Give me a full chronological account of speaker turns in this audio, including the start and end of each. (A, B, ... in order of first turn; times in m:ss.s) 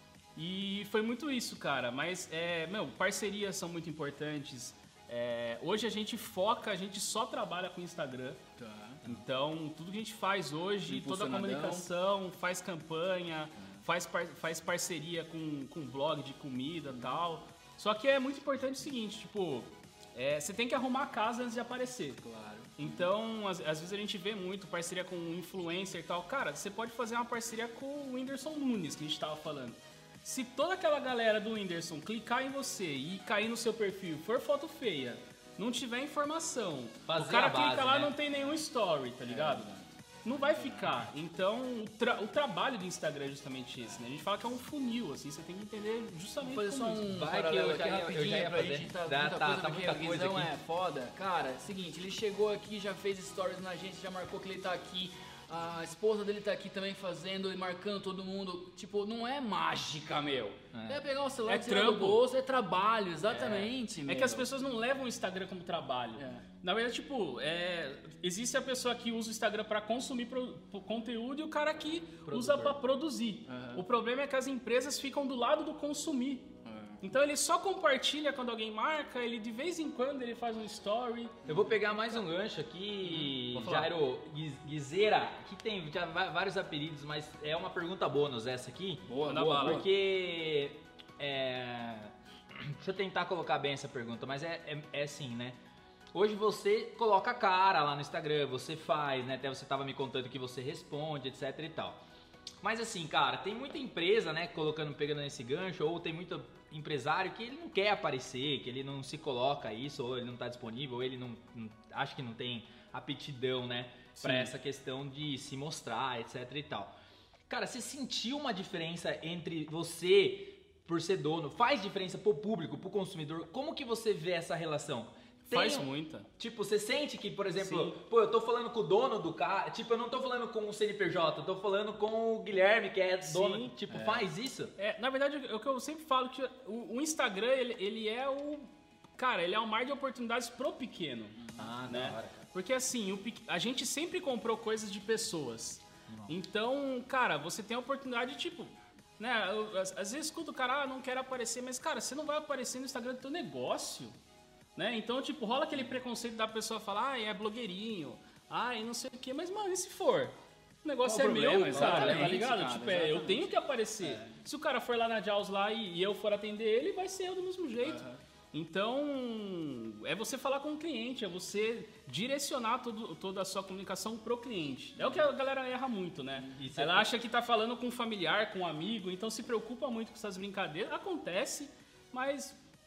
0:00.4-0:08.4 A
0:08.6-0:09.0 B
0:09.0-0:22.2 A
0:10.9-0:11.9 B
0:16.9-0:17.2 B
0:22.2-0:23.1 B
0:22.8-0:39.7 A
0:37.0-0:38.1 C
0:39.3-0:40.9 B
0:40.2-0:47.0 A
0:46.4-1:04.5 B
0:46.6-0:50.5 C
1:00.7-1:01.0 C
1:01.5-1:02.2 A
1:03.4-1:03.6 C
1:03.4-1:21.4 A
1:06.2-1:06.4 B
1:12.2-1:12.8 C
1:13.5-1:13.8 B
1:16.6-1:17.0 B
1:21.4-1:21.8 B
1:21.4-1:35.6 C
1:23.5-1:23.9 A
1:29.0-1:29.8 B
1:29.2-1:29.8 A
1:36.1-1:42.0 C
1:42.6-1:56.9 C
1:57.5-2:05.9 C
2:05.5-2:06.3 A
2:06.4-2:14.7 C
2:07.6-2:07.9 A
2:13.2-2:13.7 A
2:13.9-2:14.3 B
2:14.8-2:34.2 A
2:21.4-2:21.7 B
2:21.6-2:22.5 C
2:26.1-2:26.3 C
2:34.8-3:02.6 A
2:41.0-2:42.4 C
2:41.6-2:43.6 B
2:47.8-2:48.2 B
2:56.5-2:57.1 C